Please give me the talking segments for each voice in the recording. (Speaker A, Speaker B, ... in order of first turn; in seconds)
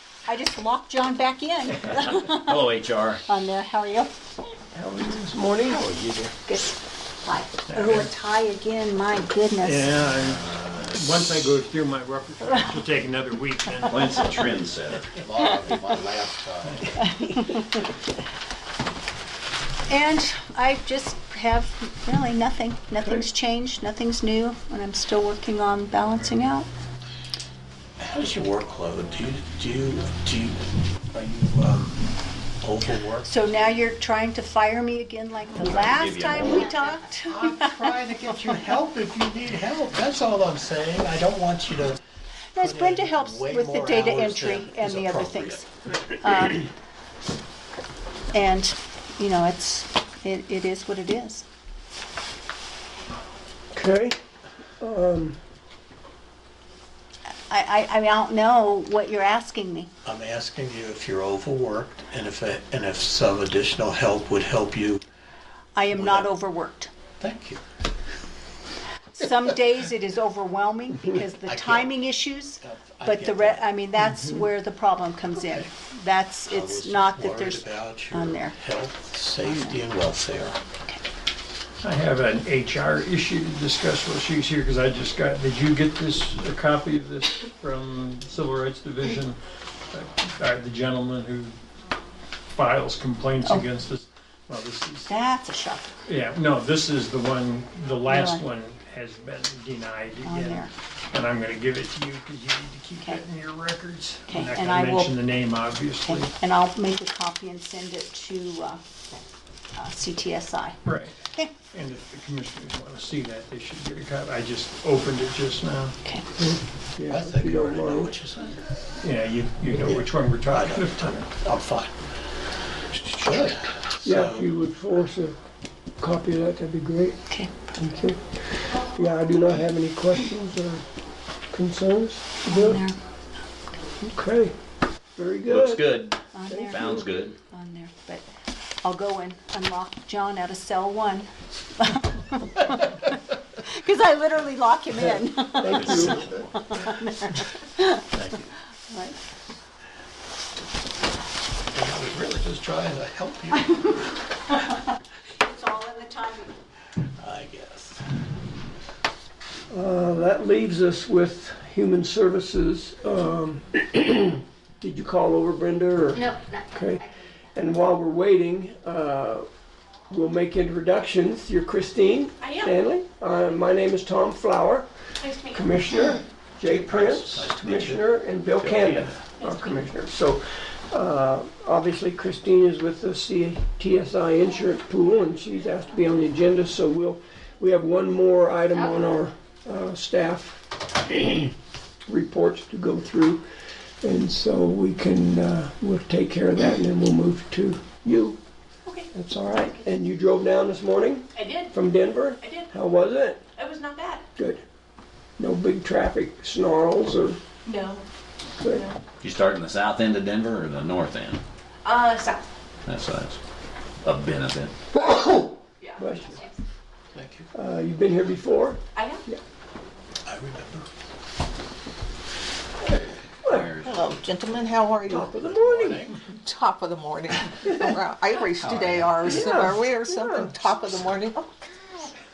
Speaker A: 0.2-2.5, 3.3-4.1, 6.5-9.9, 17.0-17.8, 19.9-26.7, 33.2-37.7, 42.5-45.7, 46.2-46.6, 48.3-51.5, 57.5-59.9, 65.8-66.9, 69.1-78.5, 79.4-79.7, 93.4-93.7, 95.1-96.0, 98.1-98.4, 100.2-100.7, 104.3-105.2, 106.0-108.8, 109.8-110.8, 127.3-127.7, 132.5-133.0, 136.3-138.3, 138.8-142.9, 143.6-148.1, 148.9-149.2, 155.4-156.5, 166.2-167.0
Speaker B: 1.8-3.2, 5.9-6.2, 10.3-10.7, 13.8-15.4, 35.5-36.7, 135.5-137.4, 178.6-179.1, 209.2-211.4, 212.9-213.4, 214.0-214.7, 223.4-224.0, 228.7-229.1
Speaker C: 4.7-5.9, 53.7-54.2, 54.8-55.4, 116.4-118.2, 124.0-125.4, 126.0-127.2, 127.8-130.8, 131.5-132.8, 134.0-134.6, 135.2-135.9, 136.5-136.8, 144.9-146.3, 159.7-169.5, 170.1-174.9, 175.4-191.5, 192.1-193.4, 194.0-198.4, 199.1-203.4, 204.3-204.6, 205.4-207.4, 208.6-208.9, 214.9-216.4, 217.5-219.4, 223.4-223.7, 225.1-226.1, 229.2-230.5
Speaker D: 7.7-8.1, 9.6-14.3, 81.8-89.4, 89.9-91.5, 92.5-95.1, 96.1-106.3, 110.8-111.2, 111.7-116.0, 119.0-121.3
Speaker E: 15.2-16.9, 28.0-32.1, 32.6-33.3, 37.2-42.0, 42.6-45.6, 60.0-65.0, 65.9-66.3, 67.2-67.6, 71.4-72.0, 72.6-73.7, 75.4-75.7, 76.5-80.6, 117.1-118.6, 119.7-121.9, 123.1-124.5, 148.1-148.5, 151.7-153.8, 157.2-158.0, 176.6-178.1, 217.1-217.5, 220.3-220.9, 225.4-226.2
Speaker F: 172.4-172.8, 175.2-175.6, 179.4-179.7, 201.3-201.7, 202.4-204.2, 207.7-208.0, 208.7-209.0, 211.8-212.5, 215.8-216.5, 219.0-219.2
Speaker G: 223.8-225.3, 226.3-232.1